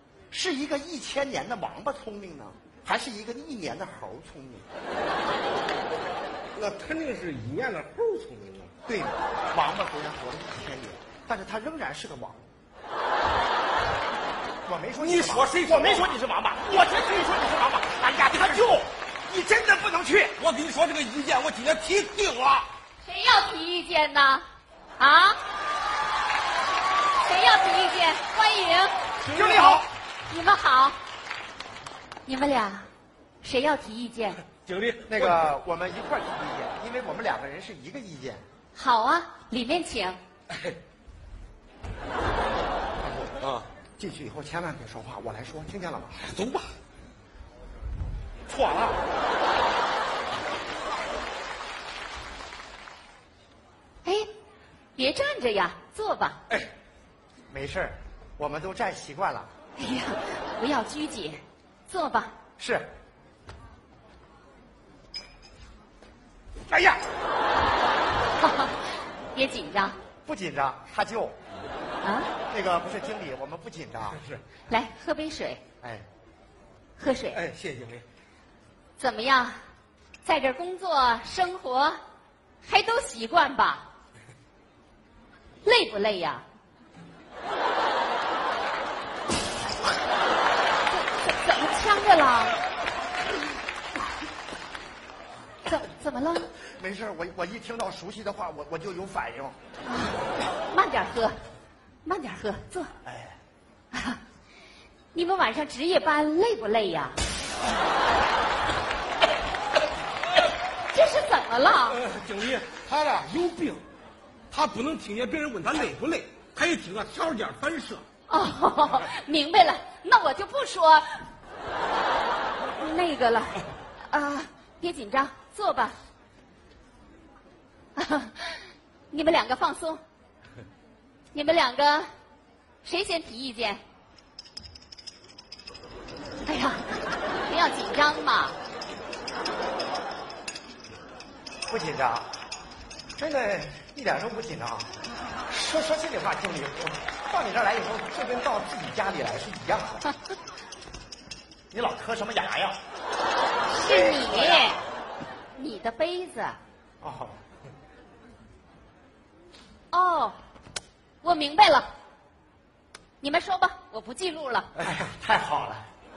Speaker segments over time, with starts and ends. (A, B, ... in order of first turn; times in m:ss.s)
0:00.3-0:04.7 A
0:06.6-0:08.7 B
0:08.9-0:12.4 A
0:14.6-0:20.4 A
0:15.0-0:16.1 B
0:20.4-0:22.7 B
0:23.0-0:24.4 C
0:25.0-0:25.4 C
0:27.2-0:29.0 C
0:29.2-0:29.9 B
0:29.3-0:29.9 A
0:30.3-0:31.0 C
0:32.2-0:32.9 C
0:33.4-0:34.4 C
0:34.6-0:35.5 B
0:35.1-0:38.4 A
0:38.7-0:40.2 C
0:40.5-0:40.8 B
0:43.0-0:43.3 A
0:43.4-0:43.7 B
0:44.0-0:46.2 A
0:46.2-0:46.7 B
0:48.5-0:49.0 B
0:55.0-0:56.4 C
0:57.5-0:59.5 A
0:59.8-1:02.3 C
1:02.6-1:02.9 A
1:06.7-1:07.0 B
1:08.4-1:10.0 C
1:10.2-1:11.3 A
1:12.0-1:12.3 C
1:12.5-1:14.2 A
1:14.7-1:15.6 C
1:15.8-1:16.0 A
1:17.0-1:17.4 C
1:17.3-1:18.0 B
1:19.0-1:19.6 C
1:20.2-1:22.0 C
1:22.6-1:23.9 C
1:25.6-1:26.4 C
1:30.9-1:32.6 C
1:35.6-1:36.5 C
1:36.8-1:39.6 A
1:39.8-1:41.4 C
1:42.0-1:42.9 C
1:43.0-1:43.4 A
1:43.9-1:44.2 C
1:45.1-1:47.2 C
1:50.9-1:52.0 C
1:51.9-1:53.8 B
1:54.5-1:58.0 B
1:58.3-2:01.2 C
2:02.7-2:06.0 C
2:08.0-2:10.0 C
2:11.3-2:12.1 C
2:12.8-2:13.8 C
2:16.4-2:18.6 C
2:21.7-2:22.3 A
2:23.2-2:24.9 A
2:25.5-2:30.0 A
2:31.7-2:32.8 A
2:33.7-2:34.8 C
2:33.9-2:34.8 A
2:35.5-2:36.6 C
2:37.0-2:37.4 A
2:39.9-2:40.4 C
2:41.2-2:41.9 C
2:43.2-2:44.7 C
2:44.7-2:45.9 A